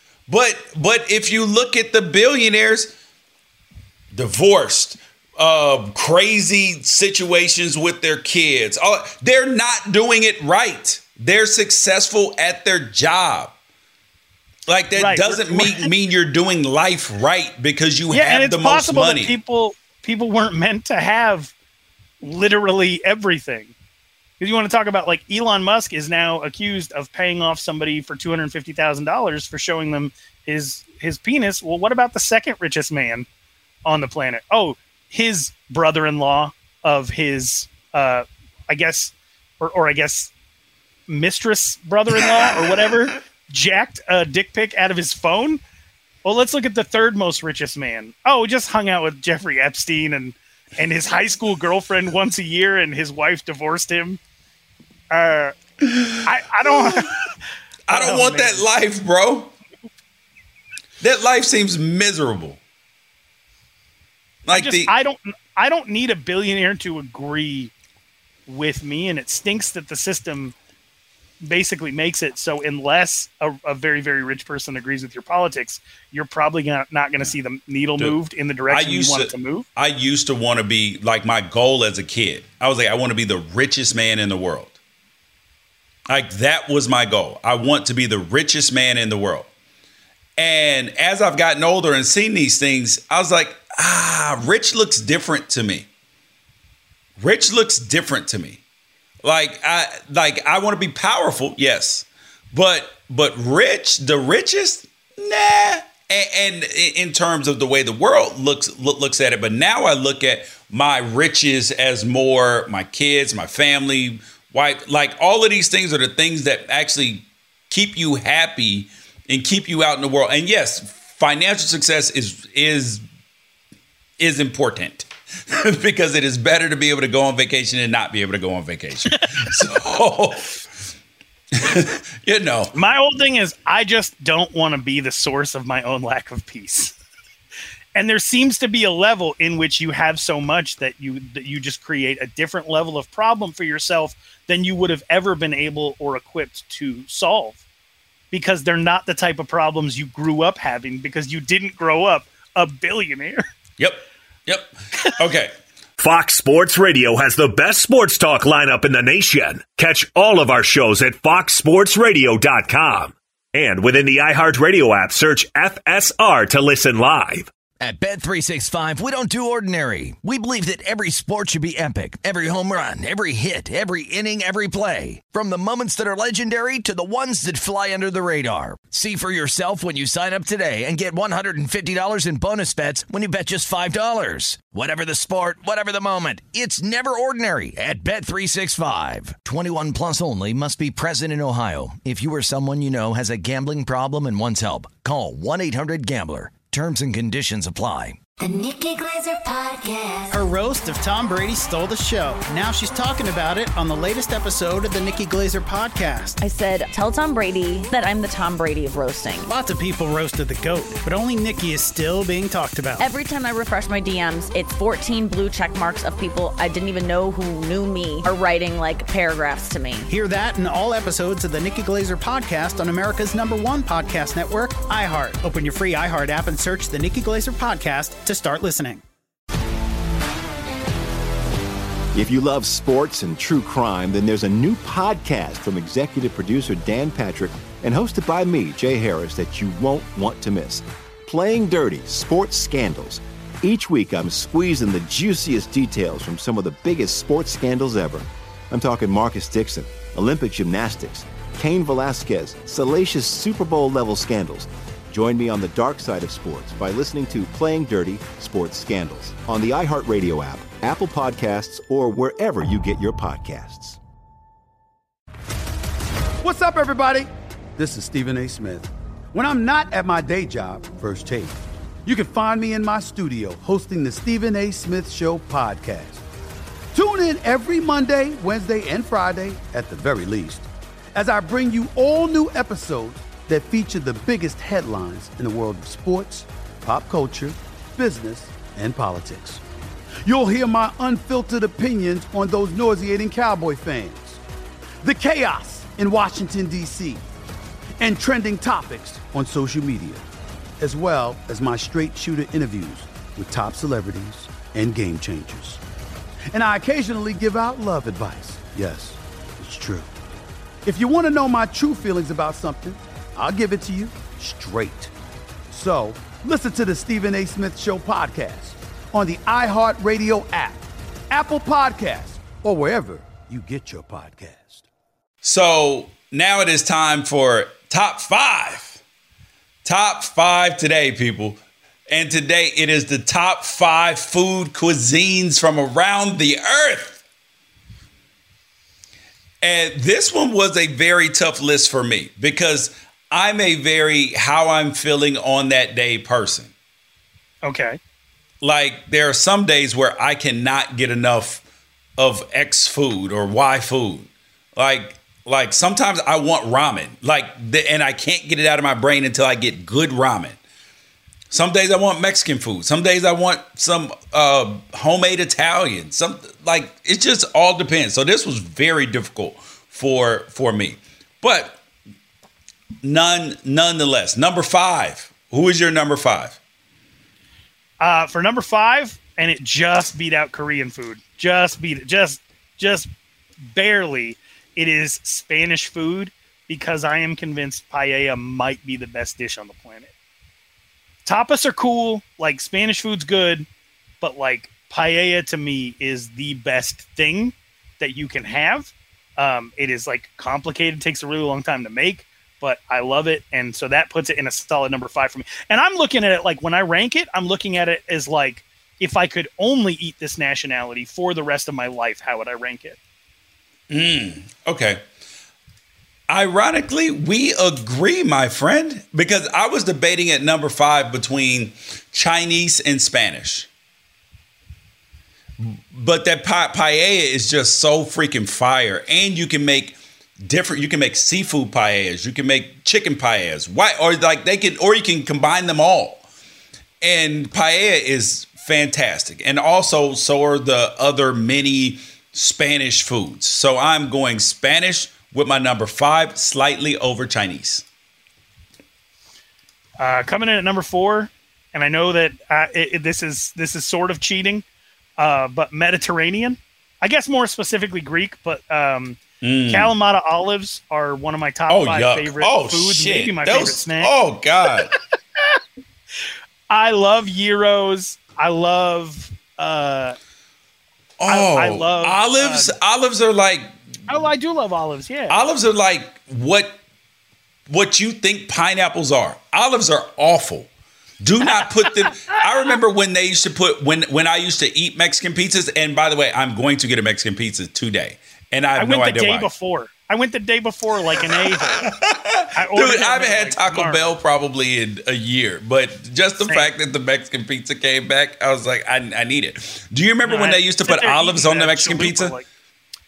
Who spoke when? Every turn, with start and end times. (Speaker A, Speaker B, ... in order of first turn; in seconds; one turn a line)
Speaker A: 0.3-2.9
Speaker A: 4.1-13.5
Speaker A: 14.7-19.3
Speaker B: 14.9-15.9
Speaker B: 18.1-21.5
Speaker B: 22.2-23.7
Speaker B: 24.4-33.3
Speaker B: 33.8-40.3
Speaker B: 41.1-45.6
Speaker B: 46.2-54.2
Speaker B: 55.1-55.5
Speaker B: 56.1-57.3
Speaker A: 57.9-59.5
Speaker B: 57.9-58.6
Speaker A: 61.0-62.6
Speaker A: 64.4-64.9
Speaker B: 64.5-67.7
Speaker B: 68.5-70.5
Speaker B: 71.4-79.7
Speaker A: 78.7-84.7
Speaker A: 86.1-89.5
Speaker A: 90.4-95.9
Speaker A: 97.2-98.6
Speaker A: 99.2-123.0
Speaker A: 124.2-130.6
Speaker A: 131.5-132.7
Speaker B: 132.7-136.9
Speaker B: 137.9-147.6
Speaker B: 148.3-153.4
Speaker A: 153.8-155.5
Speaker C: 156.0-167.5
Speaker D: 167.8-198.2
Speaker E: 198.4-200.4
Speaker F: 200.3-206.4
Speaker G: 206.4-209.5
Speaker F: 209.4-213.1
Speaker G: 213.0-220.1
Speaker F: 220.1-229.0
Speaker H: 232.1-264.0
Speaker I: 266.4-276.2
Speaker I: 276.9-289.6
Speaker I: 290.2-294.4
Speaker I: 295.0-297.2
Speaker I: 298.0-300.2
Speaker I: 300.8-305.8
Speaker I: 306.5-310.1
Speaker I: 310.8-315.1
Speaker I: 315.7-324.8
Speaker A: 325.4-329.0
Speaker A: 329.8-337.2
Speaker A: 339.6-346.7
Speaker B: 347.6-348.0
Speaker A: 348.6-351.6
Speaker A: 352.2-360.6
Speaker A: 361.5-371.8
Speaker A: 373.0-376.6
Speaker B: 378.0-383.1
Speaker B: 383.7-390.1
Speaker B: 391.2-393.7
Speaker B: 394.2-413.0
Speaker A: 413.9-415.0
Speaker A: 416.3-423.7
Speaker A: 425.6-436.2
Speaker A: 437.0-447.8
Speaker B: 450.0-454.6
Speaker B: 455.2-464.1
Speaker A: 459.4-459.9
Speaker A: 461.7-464.9
Speaker B: 466.7-470.1
Speaker A: 471.2-473.7
Speaker B: 471.3-472.7
Speaker B: 474.1-475.4
Speaker A: 475.3-476.8
Speaker A: 477.7-480.7
Speaker A: 481.2-489.5
Speaker B: 488.8-491.9
Speaker A: 491.4-502.4
Speaker B: 492.5-494.1
Speaker B: 496.4-496.7
Speaker B: 500.2-502.4